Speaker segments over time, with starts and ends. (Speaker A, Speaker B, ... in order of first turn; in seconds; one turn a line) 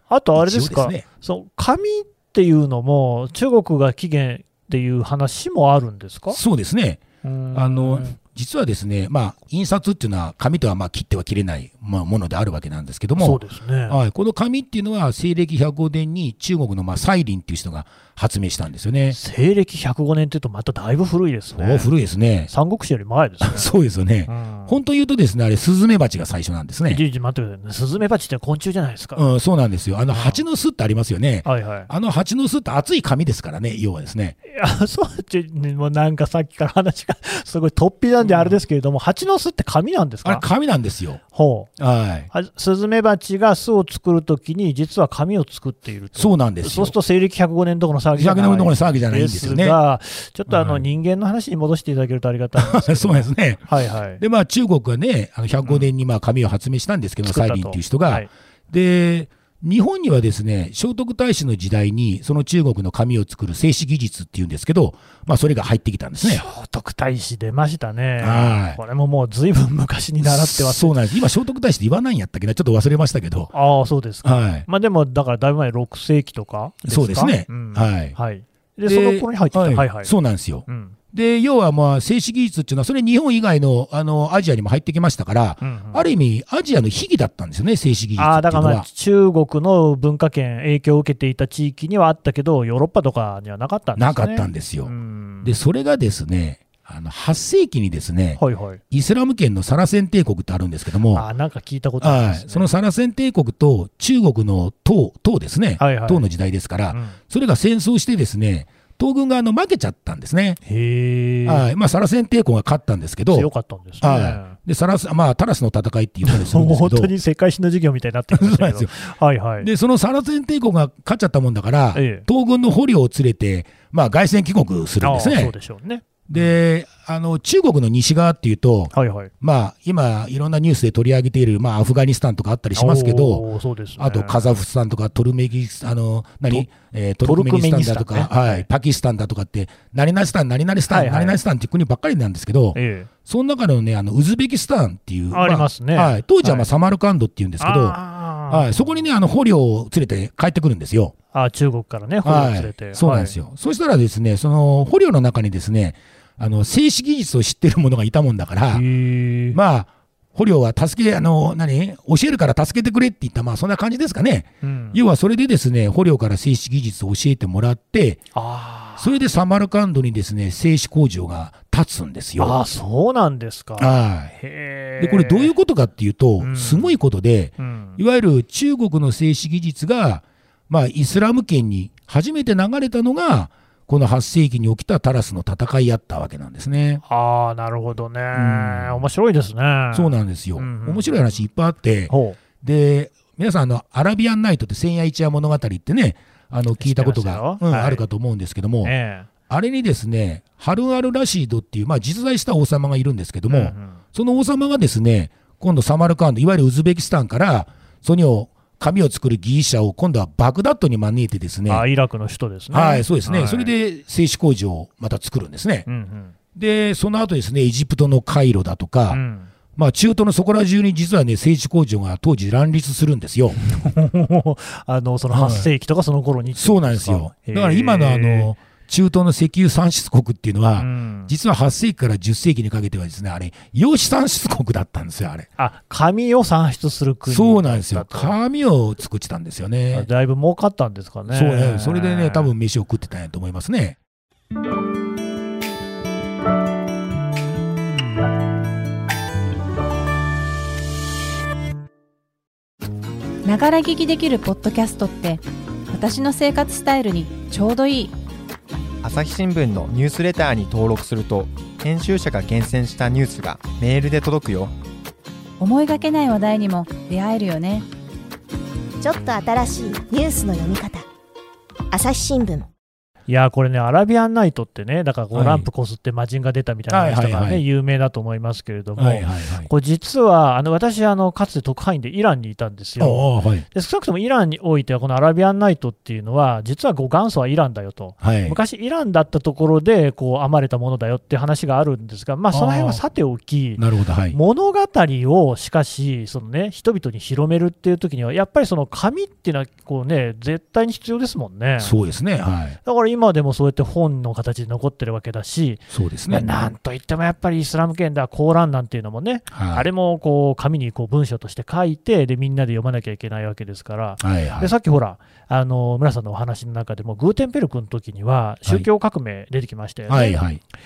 Speaker A: 0.1-6.4
Speaker B: 0.4-1.1
Speaker B: 6.3-19.2
Speaker A: 7.2-8.2
Speaker A: 13.2-14.0
Speaker A: 19.1-21.9
Speaker B: 21.6-22.5
Speaker A: 22.5-23.7
Speaker B: 23.4-27.0
Speaker A: 24.3-24.8
Speaker A: 26.9-29.3
Speaker B: 29.2-34.4
Speaker A: 30.1-30.4
Speaker A: 31.4-31.9
Speaker A: 34.5-40.5
Speaker B: 38.2-38.6
Speaker B: 40.2-41.2
Speaker A: 41.3-41.7
Speaker B: 41.8-42.3
Speaker A: 42.3-54.2
Speaker B: 46.2-47.0
Speaker B: 48.2-49.8
Speaker B: 50.5-50.9
Speaker B: 52.6-66.4
Speaker A: 55.6-55.9
Speaker A: 57.2-58.3
Speaker A: 66.2-71.0
Speaker B: 68.2-68.8
Speaker B: 70.2-73.5
Speaker A: 73.5-80.1
Speaker B: 74.2-74.7
Speaker B: 76.9-78.2
Speaker B: 78.9-88.9
Speaker A: 80.7-81.0
Speaker A: 85.6-86.1
Speaker A: 88.2-95.5
Speaker B: 94.0-94.9
Speaker B: 95.4-101.3
Speaker A: 98.4-98.8
Speaker A: 101.1-102.7
Speaker B: 102.0-110.6
Speaker A: 105.8-106.3
Speaker A: 106.9-107.2
Speaker A: 110.7-111.7
Speaker B: 111.5-117.1
Speaker A: 113.3-114.6
Speaker A: 116.2-119.7
Speaker B: 118.3-119.0
Speaker B: 119.6-125.5
Speaker A: 121.9-122.3
Speaker A: 125.0-126.6
Speaker B: 126.3-133.4
Speaker A: 128.9-129.3
Speaker A: 132.8-134.5
Speaker B: 134.0-151.1
Speaker A: 137.2-138.7
Speaker A: 140.9-141.4
Speaker A: 142.7-143.1
Speaker A: 145.3-146.7
Speaker A: 147.6-149.1
Speaker A: 151.3-153.3
Speaker B: 152.2-158.8
Speaker A: 158.7-159.6
Speaker B: 159.5-168.2
Speaker A: 164.6-165.0
Speaker A: 168.3-169.1
Speaker B: 169.0-172.6
Speaker A: 172.4-175.5
Speaker B: 173.8-174.3
Speaker B: 175.0-187.0
Speaker A: 176.4-177.0
Speaker A: 177.6-178.0
Speaker A: 187.1-191.4
Speaker B: 188.3-189.1
Speaker B: 189.9-198.9
Speaker A: 192.1-192.4
Speaker A: 196.8-198.1
Speaker A: 198.8-199.3
Speaker B: 199.5-211.8
Speaker A: 203.5-204.0
Speaker A: 211.7-213.7
Speaker B: 212.7-215.9
Speaker A: 215.9-216.3
Speaker B: 216.6-219.2
Speaker A: 219.1-219.5
Speaker B: 219.8-223.6
Speaker A: 223.8-228.5
Speaker B: 225.3-225.7
Speaker B: 226.6-235.5
Speaker A: 230.8-231.3
Speaker A: 235.6-238.4
Speaker B: 237.3-240.1
Speaker A: 239.9-242.5
Speaker B: 241.3-244.0
Speaker C: 253.4-258.1
Speaker D: 259.0-264.7
Speaker C: 265.6-267.9
Speaker E: 269.0-271.1
Speaker E: 271.9-272.7
Speaker A: 273.3-301.9
Speaker B: 275.3-275.7
Speaker B: 276.9-277.6
Speaker B: 279.0-279.7
Speaker B: 283.0-283.7
Speaker B: 288.2-288.6
Speaker B: 292.5-293.0
Speaker B: 293.8-294.4
Speaker B: 301.8-302.8
Speaker A: 302.9-320.4
Speaker B: 305.9-306.5
Speaker B: 309.5-309.9
Speaker B: 314.2-314.7
Speaker B: 320.1-320.6